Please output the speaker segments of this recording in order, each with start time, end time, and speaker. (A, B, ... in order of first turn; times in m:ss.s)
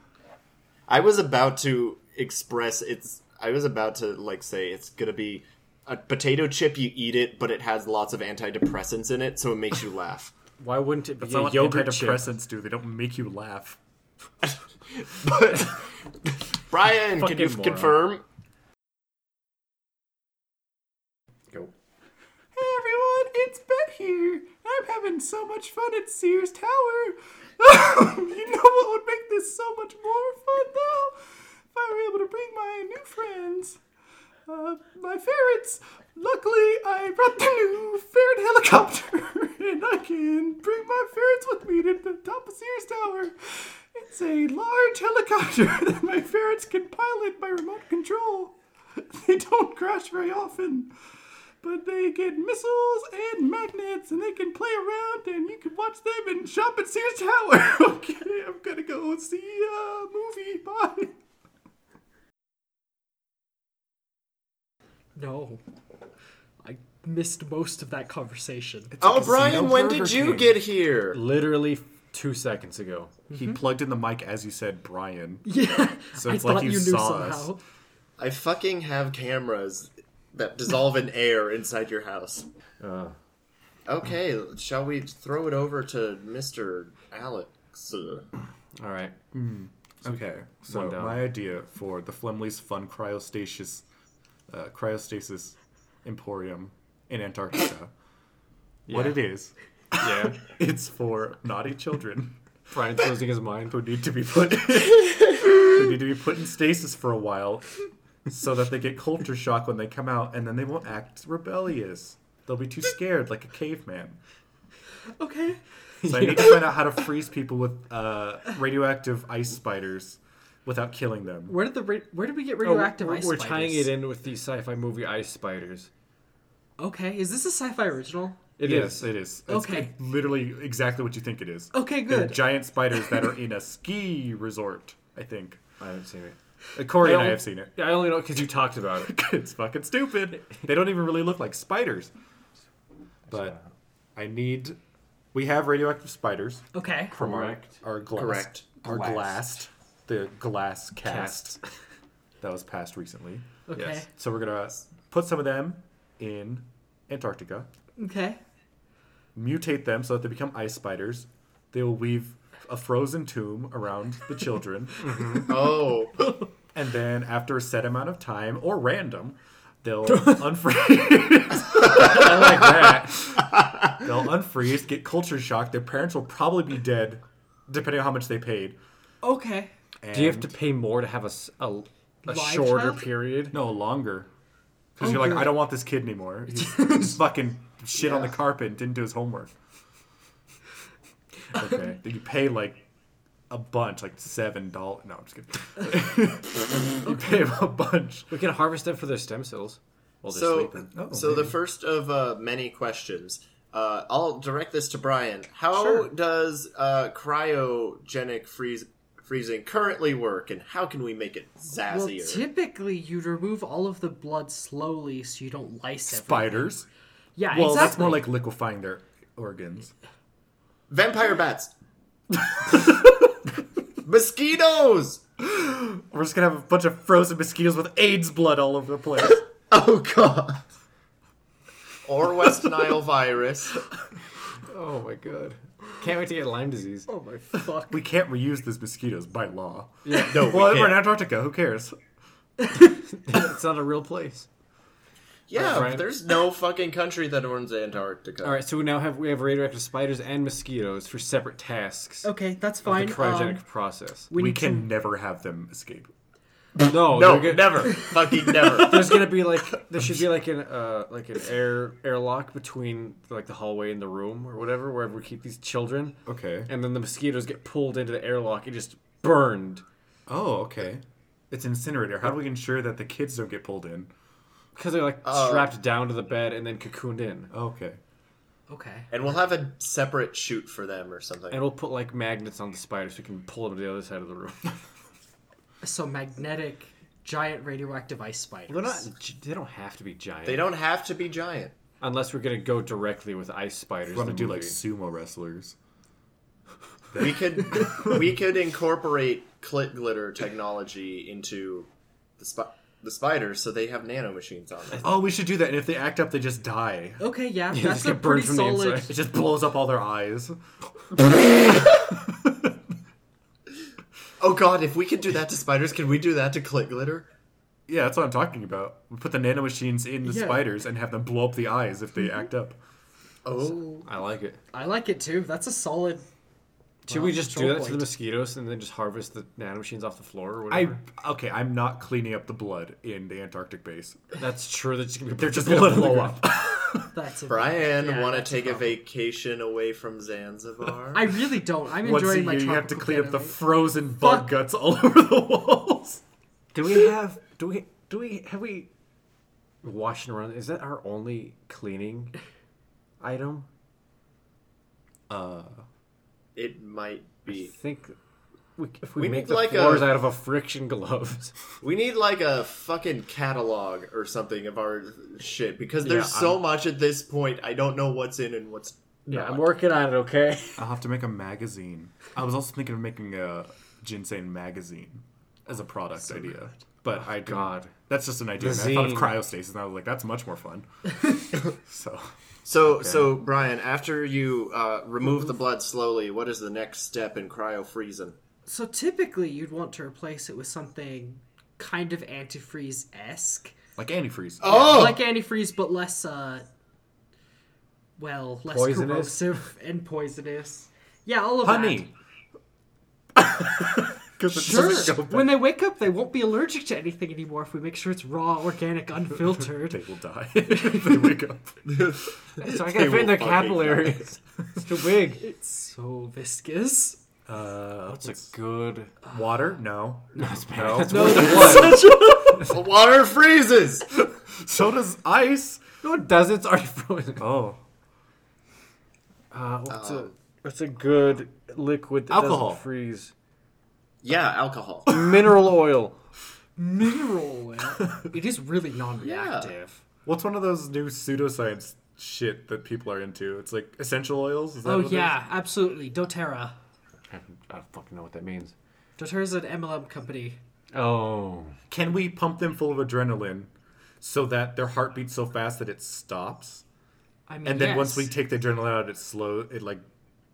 0:00.9-0:10.3 A
0:10.6-0:12.2 B
0:11.2-0:13.8 C
0:15.0-0:15.9 A
0:16.7-0:18.2 A
0:17.1-0:18.0 B
0:22.6-0:33.8 C
0:34.5-0:50.9 C
0:51.6-1:01.1 C
1:05.2-1:05.6 D
1:06.6-1:08.9 D
1:08.9-1:10.6 C
1:09.0-1:11.2 A
1:11.1-1:13.1 B
1:13.3-1:13.6 D
1:13.3-1:15.5 C
1:15.4-1:17.6 D
1:16.1-1:17.5 C
1:18.2-1:22.5 A
1:22.8-1:23.2 B
1:23.9-1:28.3 A
1:28.8-1:29.2 B
1:29.3-1:33.8 C
1:30.7-1:31.3 B
1:34.5-1:37.9 C
1:38.9-1:39.2 B
1:38.9-1:42.4 C
1:40.0-1:40.4 B
1:42.7-1:43.8 B
1:43.7-1:47.8 C
1:48.3-1:54.2 C
1:55.2-1:55.6 D
1:56.0-1:56.6 B
1:56.0-2:01.6 C
2:01.5-2:03.9 D
2:02.6-2:05.9 B
2:06.8-2:08.5 D
2:08.6-2:09.1 B
2:08.6-2:15.6 C
2:09.5-2:09.9 D
2:11.7-2:13.2 D
2:15.8-2:16.4 B
2:16.8-2:17.7 C
2:16.9-2:19.1 B
2:19.0-2:22.1 C
2:23.3-2:23.6 B
2:23.3-2:23.6 C
2:24.2-2:24.8 C
2:25.3-2:31.6 C
2:26.7-2:27.2 D
2:27.2-2:27.8 B
2:28.2-2:28.8 A
2:28.8-2:29.4 B
2:31.0-2:31.6 B
2:32.4-2:37.7 C
2:33.7-2:34.1 D
2:38.0-2:38.4 D
2:39.4-2:45.5 C
2:45.0-2:45.5 B
2:45.4-2:46.2 A
2:46.7-2:53.4 C
2:50.1-2:50.4 B
2:51.8-2:53.2 B
2:54.0-2:58.8 C
2:59.2-2:59.7 D
3:00.0-3:00.5 C
3:00.1-3:03.6 B
3:02.2-3:03.1 D
3:03.5-3:04.3 C
3:05.0-3:09.5 C
3:05.0-3:05.6 D
3:06.6-3:07.2 D
3:11.5-3:12.0 B
3:11.6-3:12.8 C
3:13.5-3:18.3 C
3:17.0-3:17.4 D
3:18.3-3:20.9 B
3:20.3-3:32.4 A
3:21.0-3:21.6 C
3:25.7-3:26.1 D
3:31.9-3:36.7 D
3:36.1-3:36.9 C
3:37.4-3:38.3 D
3:37.5-3:39.9 C
3:40.9-3:41.7 A
3:42.6-3:43.2 C
3:44.0-3:45.2 A
3:45.4-3:49.4 C
3:49.3-3:50.6 A
3:52.1-3:53.8 A
3:54.6-3:57.1 B
3:57.1-3:58.0 D
3:57.9-4:02.0 C
4:00.1-4:00.4 B
4:00.1-4:01.1 A
4:03.1-4:04.5 B
4:05.5-4:08.6 A
4:05.5-4:06.1 B
4:08.4-4:12.3 B
4:12.2-4:13.6 D
4:12.8-4:14.3 B
4:14.3-4:14.9 D
4:14.3-4:16.1 C
4:16.8-4:18.1 B
4:17.1-4:19.1 A
4:18.6-4:19.2 C
4:18.8-4:29.8 B
4:26.3-4:26.7 C
4:30.3-4:34.1 C
4:34.8-4:37.5 B
4:35.2-4:35.7 A
4:37.5-4:38.0 C
4:38.7-4:39.1 D
4:39.1-4:41.7 A
4:41.5-4:44.7 B
4:45.8-4:49.1 D
4:48.7-4:50.7 B
4:50.5-4:51.7 A
4:52.0-4:54.8 B
4:54.1-4:55.8 C
4:57.1-5:05.1 A
4:57.7-4:58.1 C
5:05.0-5:07.2 C
5:07.2-5:09.1 D
5:07.7-5:09.1 B
5:09.1-5:10.6 C
5:11.1-5:12.7 C
5:14.4-5:17.3 A
5:17.9-5:22.8 C
5:20.2-5:20.6 D
5:23.4-5:24.1 A
5:24.0-5:24.6 B
5:24.7-5:26.3 D
5:27.1-5:31.0 B
5:27.1-5:28.1 D
5:30.7-5:34.2 C
5:34.4-5:36.4 B
5:35.4-5:37.1 C
5:37.1-5:39.0 D
5:37.5-5:41.3 A
5:41.1-5:44.5 D
5:42.0-5:46.2 C
5:46.7-5:48.9 B
5:49.8-5:52.3 B
5:53.2-5:53.7 B
5:55.3-5:55.8 C
5:56.6-5:57.8 A
5:57.5-5:58.2 B
5:58.8-6:01.6 B
5:59.2-6:00.2 A
6:01.8-6:09.6 A
6:06.0-6:06.6 B
6:09.3-6:10.8 B
6:10.8-6:23.4 C
6:17.1-6:17.9 B
6:18.6-6:19.4 B
6:22.6-6:28.4 A
6:28.7-6:33.8 D
6:34.0-6:34.8 C
6:34.6-6:35.2 A
6:34.6-6:36.7 D
6:38.2-6:42.1 D
6:38.7-6:39.6 B
6:41.6-6:42.1 C
6:43.4-6:45.7 C
6:44.5-6:50.0 D
6:49.6-6:52.2 C
6:50.7-6:51.4 D
6:51.9-6:54.3 A
6:52.6-6:55.4 B
6:55.4-6:57.2 D
6:57.5-6:58.5 C
6:58.1-6:59.1 B
6:59.3-7:02.3 C
7:00.4-7:02.0 B
7:01.1-7:02.7 D
7:02.5-7:04.2 A
7:04.4-7:05.8 C
7:06.0-7:07.5 B
7:07.4-7:07.8 C
7:09.5-7:13.3 B
7:09.9-7:10.3 A
7:12.3-7:12.8 C
7:14.2-7:15.2 A
7:15.1-7:16.2 B
7:16.8-7:20.0 D
7:17.9-7:18.3 C
7:19.2-7:19.7 A
7:20.2-7:25.4 C
7:24.8-7:26.8 D
7:27.3-7:28.8 B
7:29.2-7:30.6 D
7:30.9-7:31.8 B
7:31.9-7:33.7 C
7:34.2-7:36.8 C
7:37.5-7:38.3 D
7:37.6-7:40.0 C